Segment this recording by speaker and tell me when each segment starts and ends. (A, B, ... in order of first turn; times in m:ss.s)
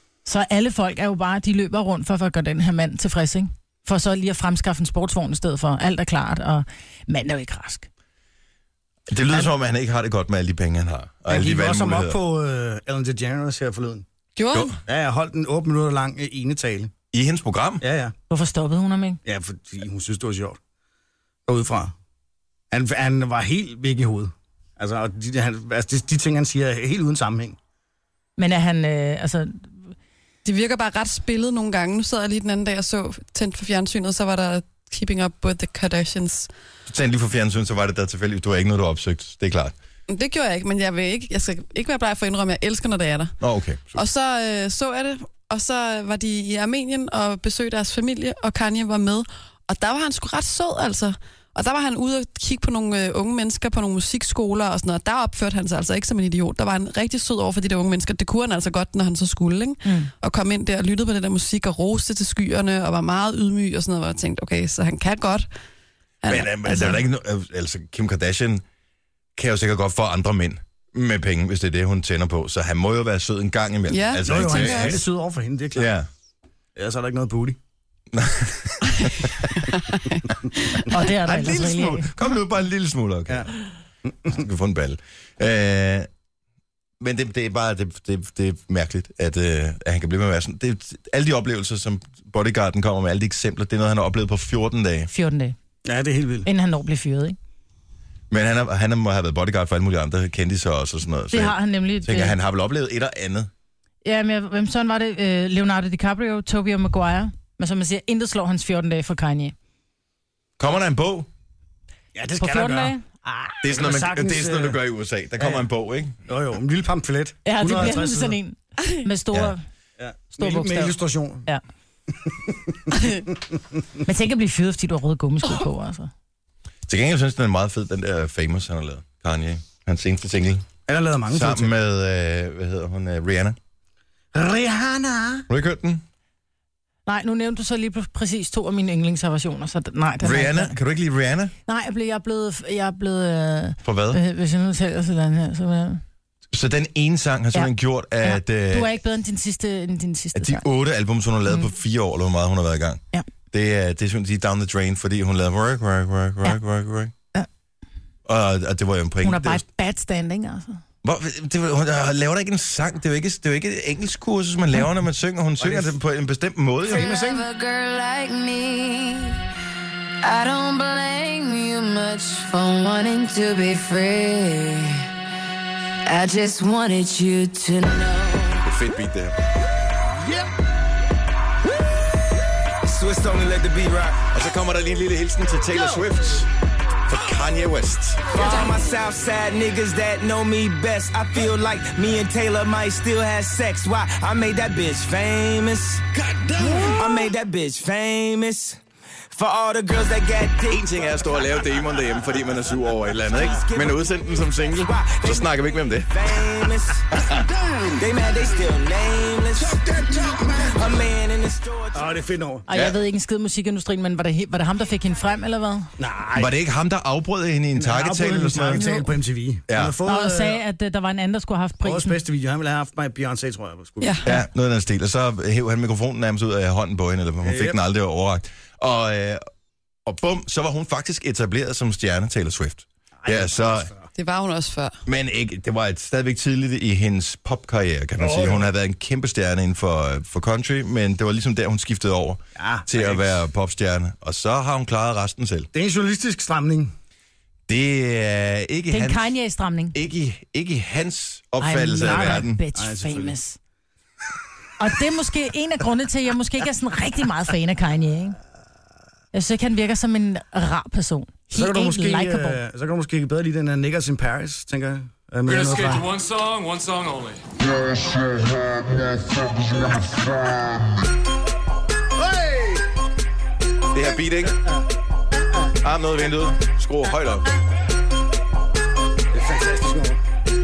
0:00.2-0:07.9 A
0:09.1-0:12.2 B
0:11.3-0:14.0 C
0:14.4-0:14.8 D
0:14.5-0:14.8 B
0:14.9-0:16.9 C
0:17.1-0:17.8 B
0:17.8-0:18.1 C
0:18.3-0:19.2 A
0:19.2-0:20.6 C
0:21.5-0:21.9 C
0:22.7-0:27.6 C
0:28.4-0:29.7 A
0:30.4-0:36.5 D
0:36.9-0:39.8 B
0:40.1-0:43.4 D
0:43.4-0:44.0 B
0:43.9-1:05.5 D
0:59.8-1:00.1 A
1:06.2-1:07.0 D
1:06.3-1:08.6 B
1:09.4-1:15.0 B
1:13.9-1:15.0 D
1:14.2-1:15.9 C
1:15.7-1:16.1 B
1:16.8-1:17.6 C
1:18.1-1:19.5 B
1:19.7-1:20.8 D
1:20.9-1:22.1 A
1:21.2-1:23.5 B
1:24.0-1:24.4 C
1:24.3-1:26.1 B
1:27.0-1:35.1 B
1:35.1-1:35.6 A
1:35.8-1:36.5 C
1:36.5-1:37.4 A
1:38.3-1:43.5 B
1:41.3-1:42.4 A
1:44.0-1:49.5 A
1:50.6-1:51.3 B
1:52.1-1:53.0 C
1:52.4-1:53.6 A
1:53.6-1:56.2 B
1:53.7-1:54.8 C
1:55.4-1:55.6 C
1:56.3-1:58.4 C
1:57.4-1:59.6 A
2:00.0-2:01.4 C
2:00.4-2:01.6 A
2:02.1-2:03.6 C
2:04.0-2:06.1 A
2:06.9-2:10.6 B
2:10.9-2:11.7 C
2:11.3-2:13.6 B
2:14.3-2:15.5 C
2:15.5-2:16.0 B
2:17.1-2:20.7 A
2:20.2-2:21.5 B
2:21.7-2:26.0 A
2:23.8-2:24.2 B
2:26.5-2:28.9 B
2:28.2-2:30.6 A
2:30.3-2:33.0 B
2:33.5-2:37.1 B
2:38.2-2:39.6 B
2:39.2-2:40.8 A
2:41.0-2:47.1 B
2:45.6-2:46.0 C
2:46.9-2:49.4 E
2:46.9-2:47.5 C
2:50.2-2:55.1 E
2:56.0-2:58.6 E
2:58.6-2:59.4 B
3:00.2-3:00.5 C
3:02.8-3:04.2 F
3:04.3-3:06.5 B
3:07.1-3:08.5 B
3:08.3-3:16.1 F
3:16.2-3:17.3 B
3:16.9-3:18.8 F
3:19.3-3:21.7 F
3:20.7-3:26.4 B
3:23.3-3:27.1 F
3:27.1-3:27.5 B
3:27.5-3:28.0 C
3:28.0-3:29.8 F
3:29.6-3:30.9 C
3:30.7-3:32.1 F
3:32.0-3:32.6 C
3:32.7-3:35.9 A
3:32.7-3:33.0 B
3:36.0-3:36.5 C
3:36.3-3:38.9 B
3:37.8-3:40.6 C
3:38.8-3:39.1 A
3:39.7-3:40.0 B
3:40.0-3:42.2 A
3:41.8-3:44.3 C
3:44.0-3:44.2 D
3:44.2-3:49.4 B
3:47.4-3:47.8 C
3:50.0-3:53.9 B
3:53.2-3:54.1 C
3:54.2-3:55.0 D
3:55.0-4:05.7 B
3:58.2-3:58.6 C
4:02.6-4:03.4 C
4:05.7-4:06.9 C
4:07.7-4:09.3 B
4:08.9-4:10.0 A
4:09.9-4:12.6 B
4:11.6-4:13.6 A
4:12.1-4:13.4 C
4:14.8-4:18.4 A
4:19.3-4:22.6 A
4:21.5-4:26.1 C
4:25.5-4:27.5 G
4:32.2-4:32.8 C
4:33.9-4:34.6 B
4:35.8-4:37.5 B
4:39.3-4:40.2 C